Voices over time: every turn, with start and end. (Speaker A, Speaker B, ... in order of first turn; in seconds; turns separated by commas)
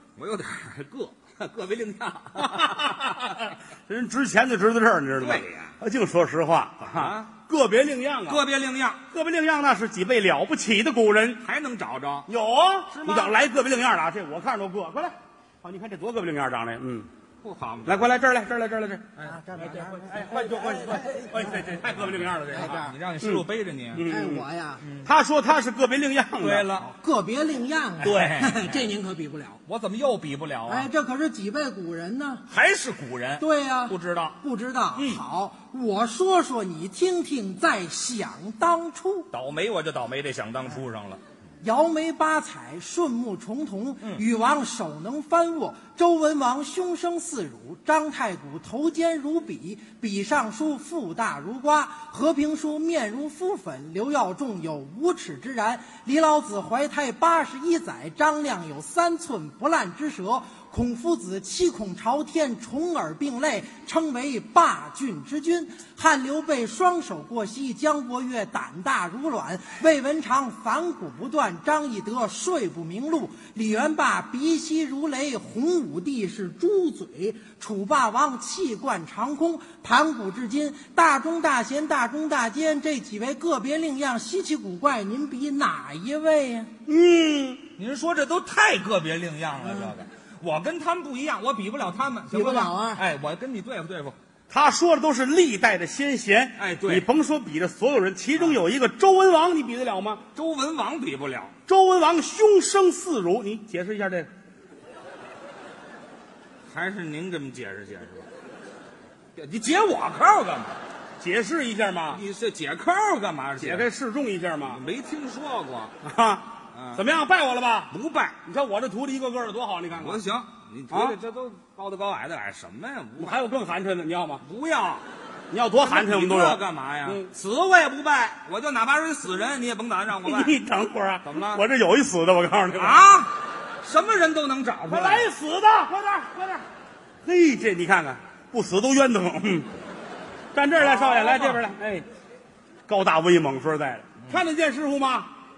Speaker A: 0.2-2.9, Speaker B: 2.4-8.4, Speaker A: 5.2-5.7, Speaker A: 6.8-7.3, Speaker A: 8.3-9.0, Speaker B: 9.1-11.4, Speaker A: 11.4-12.3, Speaker B: 12.3-17.1, Speaker A: 12.9-13.3, Speaker A: 17.4-18.1, Speaker B: 17.9-24.5, Speaker A: 19.2-19.7, Speaker C: 19.3-21.4, Speaker A: 20.5-21.0, Speaker A: 22.4-24.1, Speaker C: 24.1-24.8, Speaker A: 24.8-25.1, Speaker B: 25.0-26.7, Speaker A: 26.4-26.9, Speaker C: 26.9-29.6, Speaker A: 28.0-29.0, Speaker A: 29.7-30.9, Speaker C: 30.7-32.4, Speaker A: 32.5-34.4, Speaker C: 33.4-39.3, Speaker A: 35.0-35.2, Speaker A: 39.3-41.2, Speaker C: 41.6-86.7, Speaker B: 86.9-87.7, Speaker A: 87.8-94.2, Speaker C: 92.3-93.0, Speaker B: 94.5-100.2, Speaker A: 96.6-97.1, Speaker A: 100.3-101.5, Speaker B: 101.7-104.3, Speaker A: 106.7-108.3, Speaker A: 109.4-110.8, Speaker B: 111.2-112.2, Speaker A: 112.1-113.9, Speaker B: 113.6-114.8, Speaker A: 114.7-115.9, Speaker B: 116.0-120.2, Speaker A: 116.7-117.0, Speaker A: 117.9-118.4, Speaker A: 120.0-123.3, Speaker B: 120.9-121.2, Speaker B: 123.2-124.4, Speaker A: 124.4-125.0, Speaker B: 125.5-127.3, Speaker A: 125.8-130.6, Speaker B: 130.2-133.1, Speaker A: 131.2-131.6, Speaker A: 132.8-135.3, Speaker B: 134.9-136.6, Speaker B: 137.2-139.7, Speaker B: 140.5-142.1, Speaker A: 140.8-141.6, Speaker B: 142.9-145.3